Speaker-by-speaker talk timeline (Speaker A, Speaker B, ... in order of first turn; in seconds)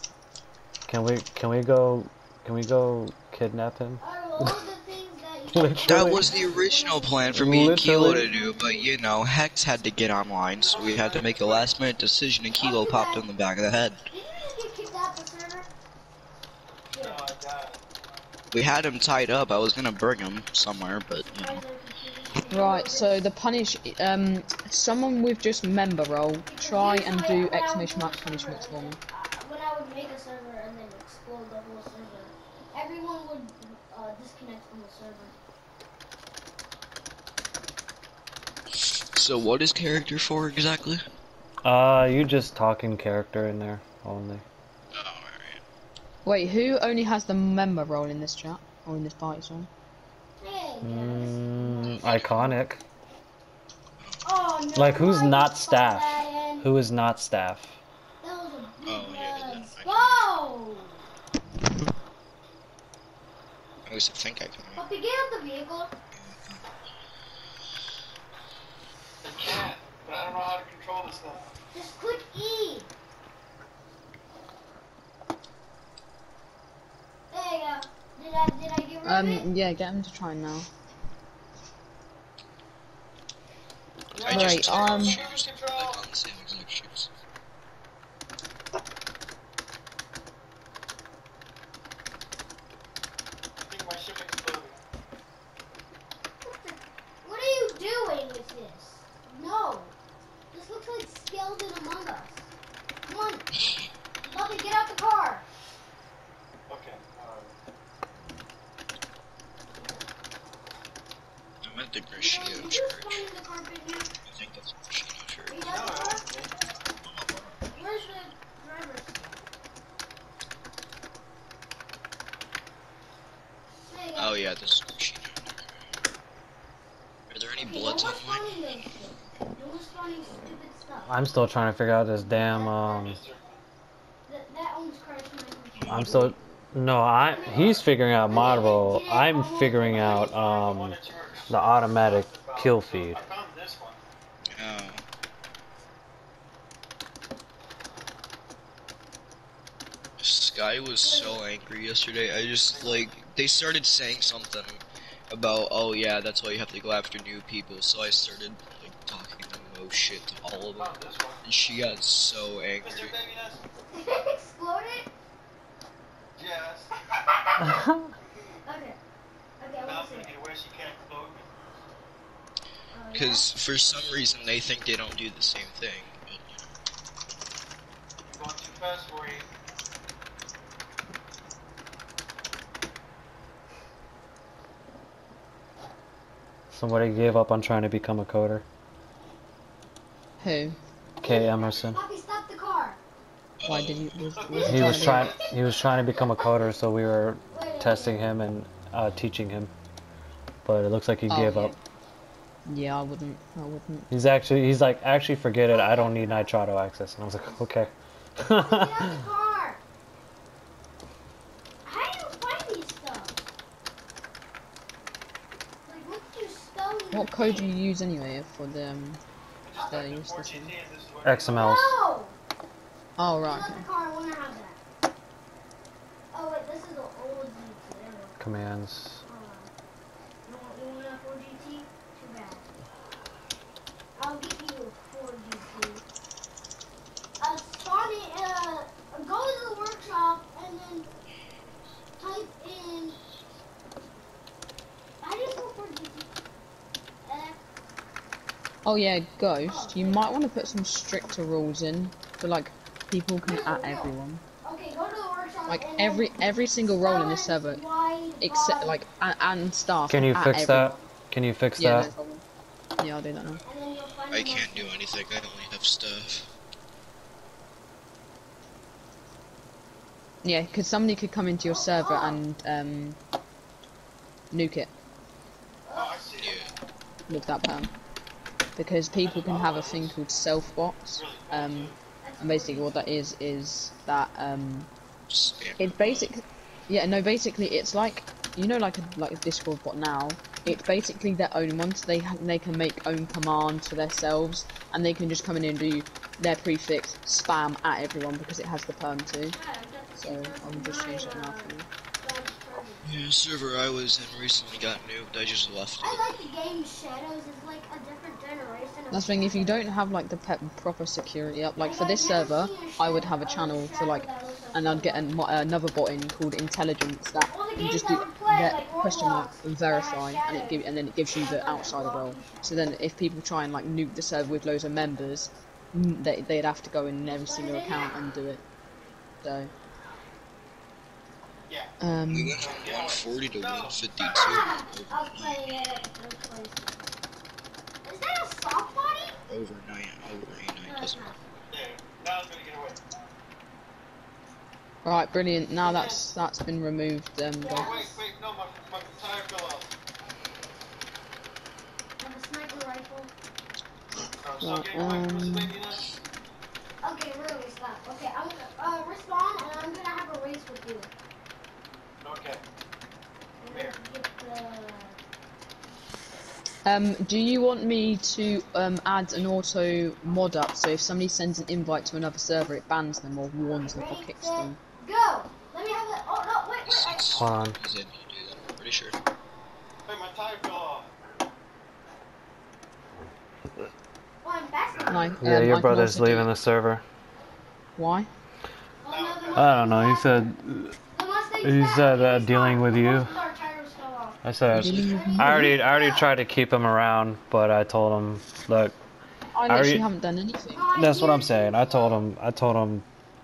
Speaker A: 0.9-4.6, 5.5-6.3, 7.3-8.3, 41.6-44.4, 50.8-52.8, 54.7-57.8, 131.1-133.2, 135.9-143.2, 167.6-168.1, 186.7-188.6, 191.2-192.0, 194.7-199.7, 200.6-201.8, 204.1-209.2, 221.2-221.9, 228.4-229.2, 260.1-262.1, 377.3-377.8, 385.4-387.0, 389.5-391.0, 391.6-393.4, 394.4-398.9, 399.7-400.1, 400.9-403.0
Speaker B: 4.0-8.9, 12.6-13.2, 14.1-15.7, 16.9-17.2, 21.2-23.2, 26.5-35.3, 50.4-52.0, 54.2-56.7, 58.2-61.0, 64.8-65.9, 71.7-72.9, 77.3-79.5, 84.2-85.2, 96.4-99.9, 100.5-102.5, 103.1-103.5, 104.2-105.5, 109.8-110.0, 112.1-114.1, 115.5-116.2, 117.7-119.4, 123.9-124.5, 127.6-131.1, 132.5-133.2, 134.3-136.3, 137.3-140.3, 151.0-151.4, 163.9-165.1, 168.6-169.0, 169.6-170.3, 172.9-173.5, 191.2-193.0, 194.5-195.6, 196.2-196.7, 197.5-198.3, 205.7-206.6, 208.5-209.8, 211.8-213.4, 215.8-217.7, 221.5-222.3, 223.4-224.8, 226.3-228.4, 229.3-229.7, 230.4-232.7, 234.2-236.0, 237.4-241.1, 242.2-243.2, 245.2-246.3, 247.2-247.6, 249.7-250.2, 253.4-259.0, 263.6-265.2, 271.6-272.4, 275.9-276.3, 282.2-283.0, 299.5-303.1, 306.0-309.8, 311.8-315.3, 317.4-323.0, 327.2-328.2, 334.2-337.0, 338.0-339.4, 340.9-341.4, 347.6-348.2, 352.2-353.3, 357.0-361.1, 363.6-365.1, 373.8-377.4, 384.4-385.4, 389.0-390.4, 391.1-396.3, 400.7-402.2
Speaker C: 5.8-14.0, 18.5-21.6, 38.8-41.0, 44.9-45.6, 51.9-52.4, 58.8-60.2, 63.9-64.8, 66.2-66.6, 84.1-87.1, 111.6-113.2, 114.2-115.9, 117.0-117.5, 124.1-125.5, 127.3-128.6, 135.8-136.3, 144.5-145.0, 150.2-163.1, 173.1-176.7, 193.6-194.1, 264.3-266.5, 276.4-276.7, 285.3-286.3, 303.0-306.3, 332.3-335.6, 339.5-341.3, 376.9-379.1
Speaker D: 10.6-11.8, 16.9-17.8, 69.2-71.5, 84.2-86.0, 93.6-94.8, 106.7-107.5, 115.6-116.7, 132.5-133.6, 139.9-144.0, 152.7-153.1, 160.8-161.4, 162.8-163.6, 166.3-166.9, 169.8-171.8, 178.2-179.5, 194.4-194.8, 219.6-221.9, 275.9-276.6, 279.2-280.2, 281.1-282.0, 332.6-334.0, 341.7-343.0, 347.7-349.9, 354.4-356.1, 362.2-362.6, 363.7-363.9, 380.1-381.1, 389.1-390.0
Speaker E: 22.5-29.0, 46.2-49.7, 79.0-80.7, 84.3-85.2, 190.4-190.8, 193.6-195.3, 201.3-201.8, 202.7-204.1, 217.1-219.2, 219.9-220.8, 223.2-223.8, 248.8-254.4, 255.7-257.8, 258.4-261.0, 261.8-262.4, 263.0-263.6, 270.4-273.2, 274.5-274.9, 277.3-277.9, 278.8-284.9, 285.8-299.6, 300.2-301.9, 309.1-328.6, 329.4-329.7, 332.0-332.6, 345.0-348.0, 354.6-355.7, 366.9-374.8, 385.1-386.5, 388.0-388.3, 394.7-395.8, 399.5-400.9